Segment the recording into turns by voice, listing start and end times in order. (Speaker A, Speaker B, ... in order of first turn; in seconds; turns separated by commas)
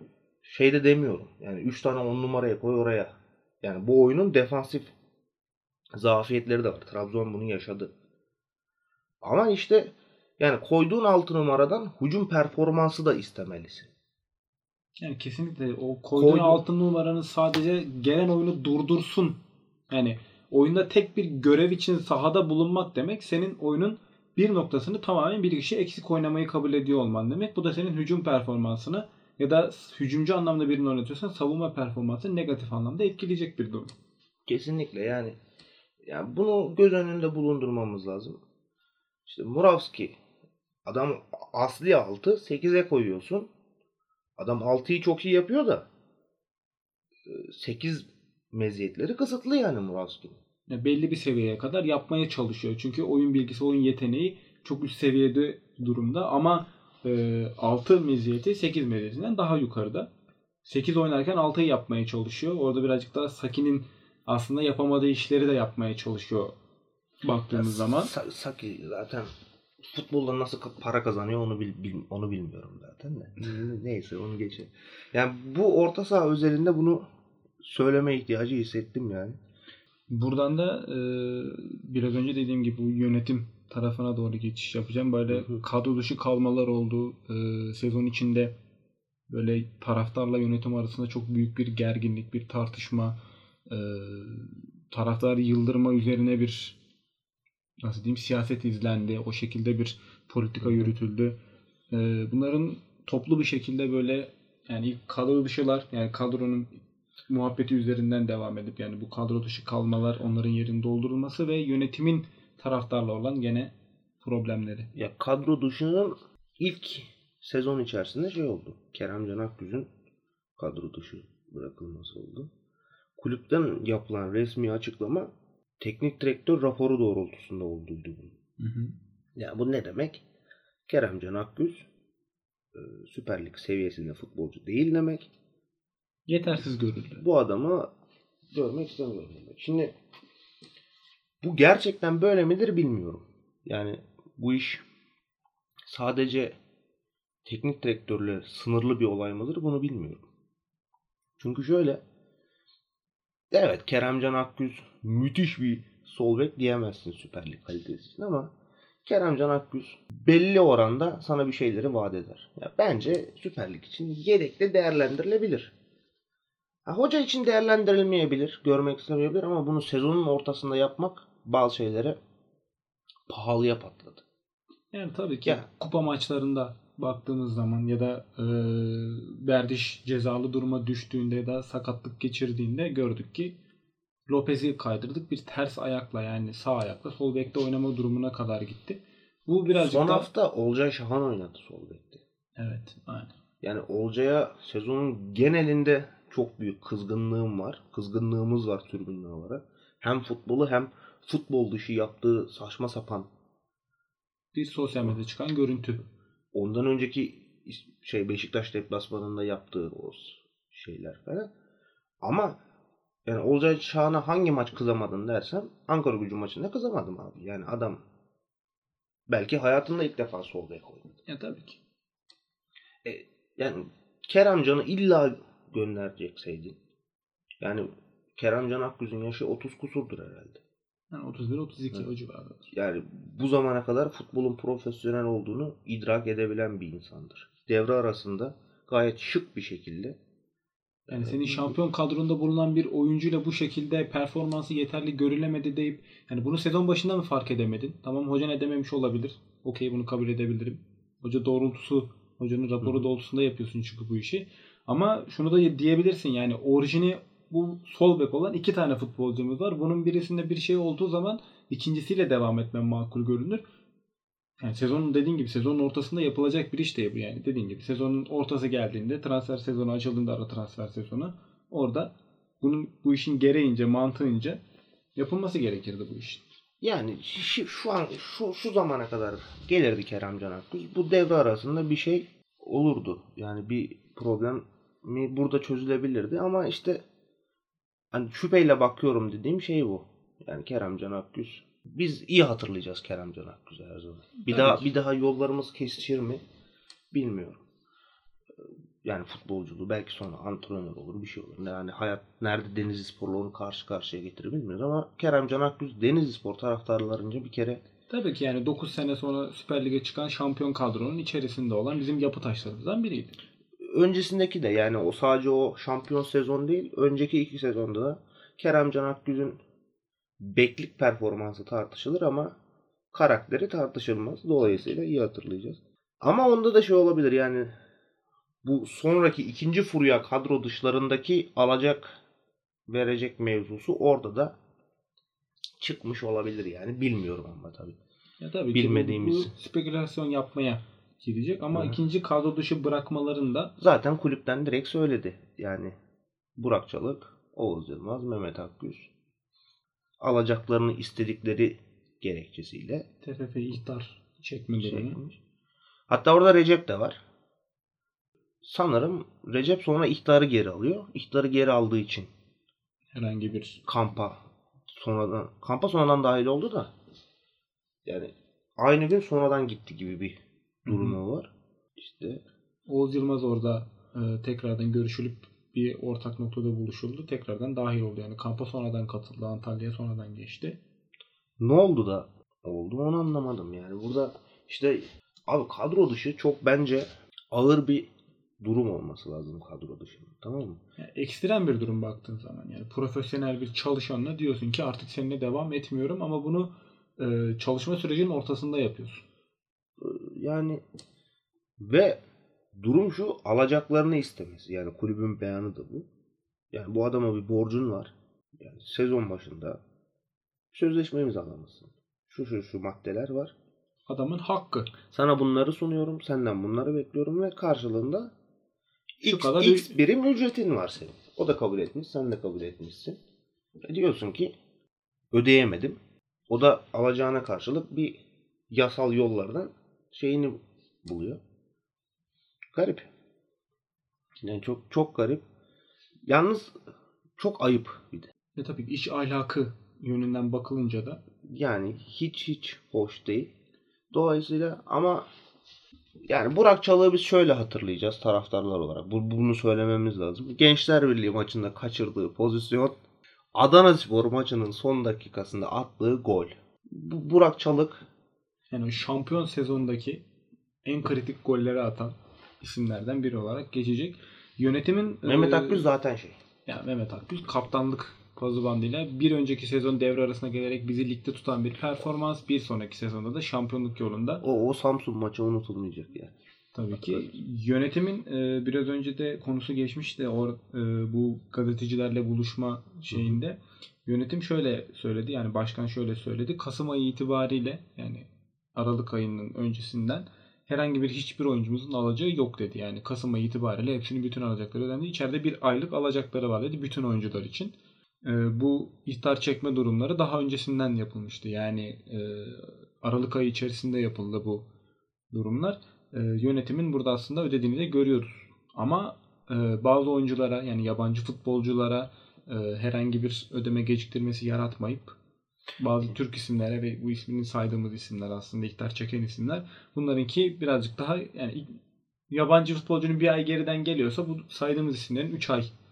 Speaker A: 0.4-4.9, Speaker A: 6.0-7.9, Speaker A: 9.2-13.9, Speaker B: 15.0-19.4, Speaker A: 16.2-16.6, Speaker B: 19.9-33.9, Speaker A: 34.5-35.4, Speaker A: 36.0-38.4, Speaker A: 39.3-40.2, Speaker A: 40.9-43.5, Speaker A: 44.4-45.9, Speaker A: 47.3-50.4, Speaker B: 50.7-60.1, Speaker B: 60.6-66.6, Speaker B: 67.2-68.1, Speaker A: 67.5-69.3, Speaker A: 69.8-77.0, Speaker A: 77.6-79.4, Speaker B: 80.1-88.5, Speaker A: 85.3-85.6, Speaker B: 89.3-93.2, Speaker B: 93.7-96.8, Speaker B: 97.8-101.4, Speaker A: 100.6-100.9, Speaker B: 101.9-114.9, Speaker A: 115.0-119.9, Speaker A: 120.6-122.5, Speaker A: 123.2-128.4, Speaker B: 128.6-128.9, Speaker A: 129.4-130.2, Speaker A: 130.9-131.9, Speaker A: 132.7-135.3, Speaker B: 136.3-137.2, Speaker A: 137.2-137.9, Speaker A: 138.5-139.9, Speaker A: 141.4-144.8, Speaker A: 145.9-146.6, Speaker A: 147.5-150.2, Speaker A: 151.4-152.0, Speaker A: 153.5-158.5, Speaker A: 159.1-165.7, Speaker A: 166.9-172.2, Speaker A: 173.3-174.2, Speaker B: 174.9-183.6, Speaker B: 184.3-190.3, Speaker A: 189.7-192.2, Speaker B: 192.6-193.3, Speaker A: 193.6-203.3, Speaker B: 204.5-206.0, Speaker A: 206.5-211.5, Speaker A: 212.2-212.6, Speaker A: 213.3-218.0, Speaker A: 219.3-221.1, Speaker B: 221.3-221.8, Speaker A: 223.1-226.8, Speaker A: 227.6-230.6, Speaker B: 231.1-232.7, Speaker A: 232.7-240.2, Speaker A: 241.1-241.8, Speaker B: 241.1-263.6, Speaker B: 264.6-274.6, Speaker B: 275.2-276.4, Speaker A: 276.8-287.0, Speaker A: 288.1-296.4, Speaker B: 294.4-294.9, Speaker A: 297.1-297.6, Speaker A: 299.0-307.8, Speaker B: 308.1-313.4, Speaker A: 313.8-319.6, Speaker A: 320.4-322.6, Speaker A: 323.1-327.7, Speaker B: 324.6-324.9, Speaker A: 328.6-332.2, Speaker A: 332.9-334.6, Speaker A: 335.8-338.0, Speaker B: 338.4-343.7, Speaker A: 338.7-339.5, Speaker A: 343.8-345.9, Speaker A: 346.6-349.1, Speaker A: 350.2-353.1, Speaker B: 353.2-355.2, Speaker A: 354.8-355.4, Speaker A: 356.1-357.2, Speaker A: 358.6-362.3, Speaker B: 363.1-363.8, Speaker A: 363.9-364.4, Speaker A: 364.9-366.9, Speaker A: 368.1-372.4, Speaker B: 370.9-371.2, Speaker B: 372.9-380.8, Speaker A: 381.6-390.8, Speaker B: 391.0-399.2, Speaker A: 400.0-400.8, Speaker A: 401.8-402.2, Speaker A: 402.7-406.1, Speaker A: 406.7-409.8, Speaker A: 410.7-413.5, Speaker B: 414.1-414.9, Speaker A: 415.1-418.3, Speaker A: 419.2-423.2, Speaker B: 419.2-420.0, Speaker A: 423.9-424.5, Speaker A: 425.3-431.4, Speaker A: 432.7-433.1, Speaker A: 434.4-435.4, Speaker A: 436.3-436.7, Speaker A: 437.4-438.3, Speaker B: 438.6-441.2, Speaker A: 441.5-443.5, Speaker A: 444.1-445.3, Speaker A: 446.3-453.0, Speaker A: 453.6-458.1, Speaker B: 458.7-460.2, Speaker B: 460.9-465.9, Speaker A: 465.2-466.4, Speaker B: 466.7-474.4, Speaker A: 474.4-476.3, Speaker B: 476.7-504.7, Speaker A: 476.9-477.3, Speaker A: 483.1-483.4, Speaker B: 505.3-515.1, Speaker B: 515.8-521.8, Speaker B: 522.3-525.7